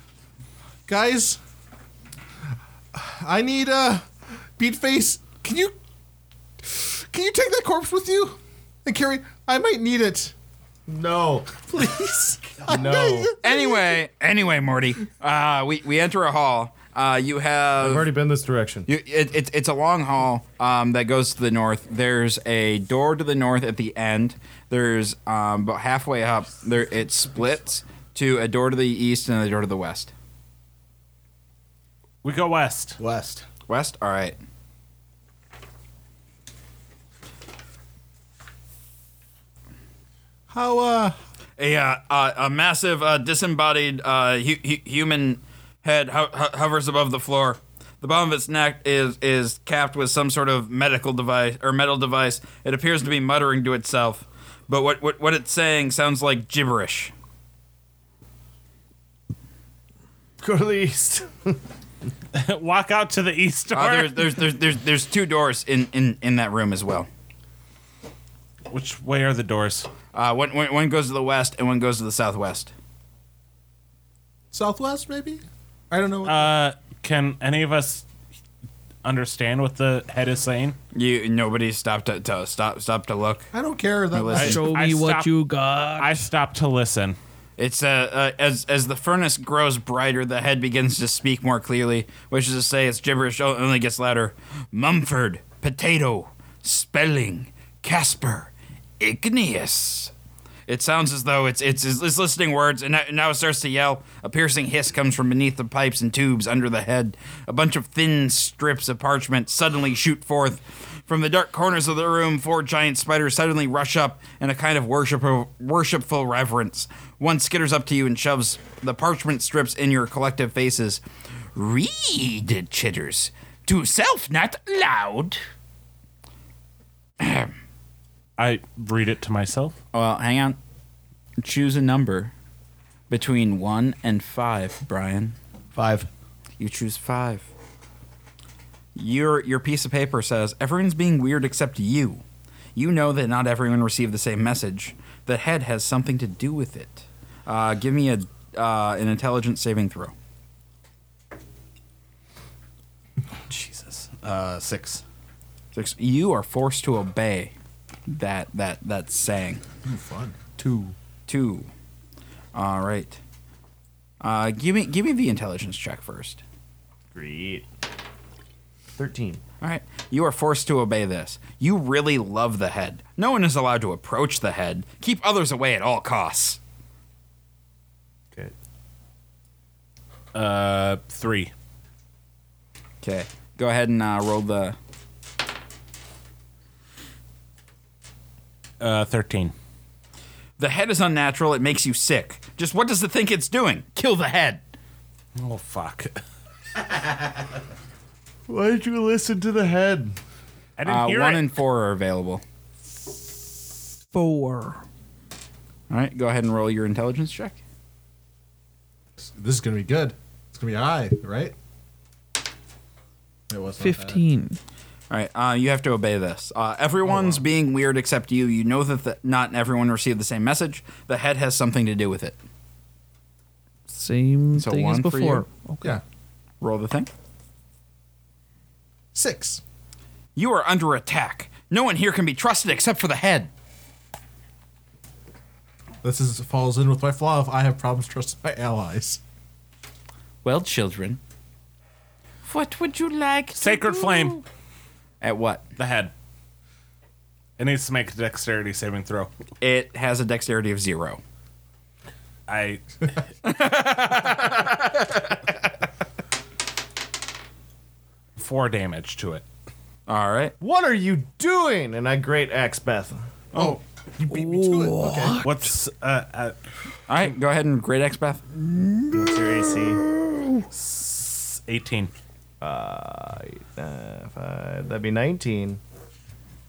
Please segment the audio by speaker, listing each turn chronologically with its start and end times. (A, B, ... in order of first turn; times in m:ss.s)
0:00.9-0:01.4 A
0:02.9-0:05.8 A
0:06.6-0:10.3 A
0:10.9-0:11.6 B
0:11.6-0:14.0 A
0:12.7-0:13.4 B
0:13.4-0:18.1 C
0:17.8-0:18.9 B
0:18.9-0:30.1 C
0:32.2-0:33.0 D
0:33.0-0:33.5 E
0:33.7-0:34.4 C
0:40.5-0:41.2 A
0:41.6-0:57.1 C
1:00.4-1:01.6 B
1:02.3-1:04.4 D
1:03.7-1:07.1 C
1:08.7-1:09.9 D
1:10.1-1:12.7 C
1:14.5-1:16.5 A
1:16.3-1:18.1 D
1:19.0-1:20.8 D
1:20.9-1:23.5 C
1:23.5-1:24.6 A
1:24.1-1:24.5 C
1:24.4-1:25.3 D
1:24.4-1:26.3 F
1:26.0-1:27.2 D
1:27.6-1:40.1 C
1:40.7-2:01.0 C
2:01.6-2:05.4 C
2:07.2-2:07.5 C
2:08.4-2:09.8 D
2:09.9-2:10.6 C
2:11.4-2:12.3 C
2:13.1-2:15.4 C
2:15.7-2:16.1 E
2:16.6-2:17.5 C
2:19.0-2:22.2 C
2:22.8-2:30.1 C
2:33.8-2:35.0 E
2:35.7-2:37.5 C
2:38.1-2:39.6 C
2:39.8-2:40.4 A
2:40.6-2:40.9 B
2:41.3-2:41.7 C
2:42.5-2:43.2 C
2:44.2-2:46.4 C
2:47.1-2:47.7 B
2:49.0-2:49.4 B
2:49.6-2:56.6 C
3:00.3-3:01.5 D
3:03.0-3:04.8 C
3:08.8-3:09.5 D
3:10.6-3:14.6 C
3:15.4-3:16.2 D
3:18.5-3:20.2 B
3:20.8-3:21.4 D
3:20.8-3:22.4 C
3:24.1-3:24.8 F
3:25.9-3:27.6 C
3:29.2-3:31.6 A
3:33.5-3:34.2 A
3:33.8-3:34.6 F
3:35.1-3:42.4 C
3:43.9-3:46.0 F
3:44.6-3:45.5 C
3:46.6-3:47.1 C
3:49.2-3:49.6 A
3:50.4-3:53.5 C
3:56.0-3:59.2 A
4:00.4-4:01.2 C
4:02.4-4:04.4 C
4:03.6-4:04.4 D
4:05.2-4:05.6 C
4:05.8-4:06.1 D
4:07.6-4:09.3 D
4:09.6-4:11.2 C
4:12.5-4:13.1 D
4:13.4-4:15.4 C
4:18.4-4:19.4 D
4:20.1-4:20.6 C
4:20.6-4:23.2 B
4:23.5-4:23.8 D
4:23.6-4:25.5 A
4:24.3-4:25.7 F
4:25.4-4:26.6 D
4:27.1-4:28.4 C
4:29.1-4:30.0 B
4:30.7-4:32.1 D
4:32.6-4:35.8 B